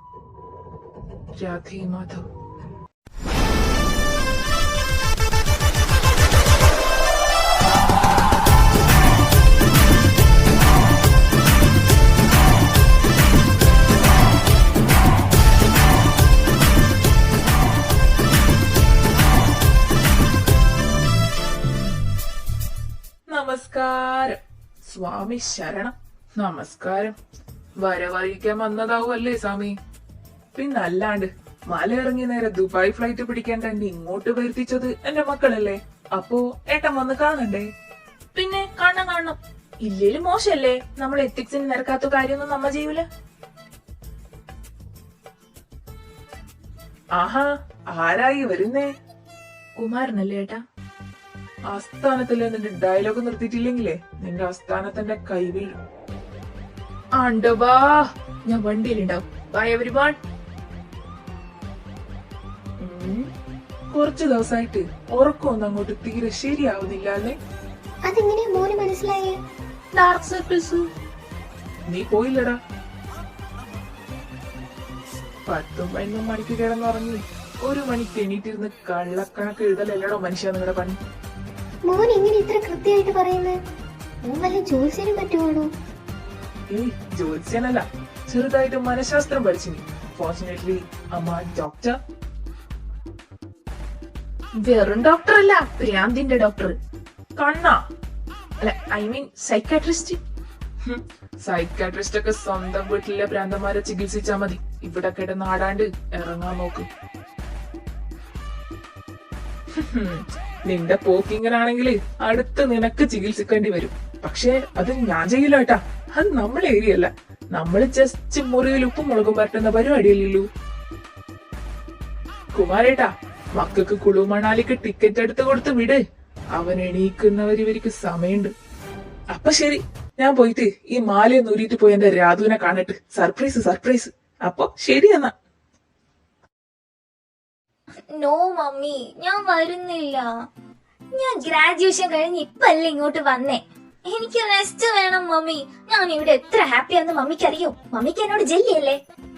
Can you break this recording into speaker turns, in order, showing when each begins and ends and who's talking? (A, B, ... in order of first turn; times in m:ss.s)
0:01.4-0:02.2 A
0:23.3-0:27.2 A
0:27.8-0:29.7 A
0:30.6-0:37.7 A
0:38.3-0:43.0 A
0:47.2-0:48.9 A
0:49.8-0:50.6 A
0:51.7-0:55.7 A
0:57.2-1:00.2 A
1:02.8-1:03.2 A
1:03.9-1:07.4 A
1:08.0-1:09.4 B
1:09.9-1:10.8 A
1:11.9-1:12.6 A
1:15.5-1:21.0 A
1:21.9-1:23.6 B
1:24.3-1:25.7 B
1:26.7-1:32.0 A
1:34.6-1:36.7 A
1:37.4-1:37.8 A
1:38.6-1:40.2 A
1:40.8-1:46.9 A
1:49.7-2:00.4 A
2:02.5-2:06.0 A
2:06.6-2:08.5 A
2:09.3-2:15.3 A
2:18.0-2:20.4 C
2:21.1-2:29.0 C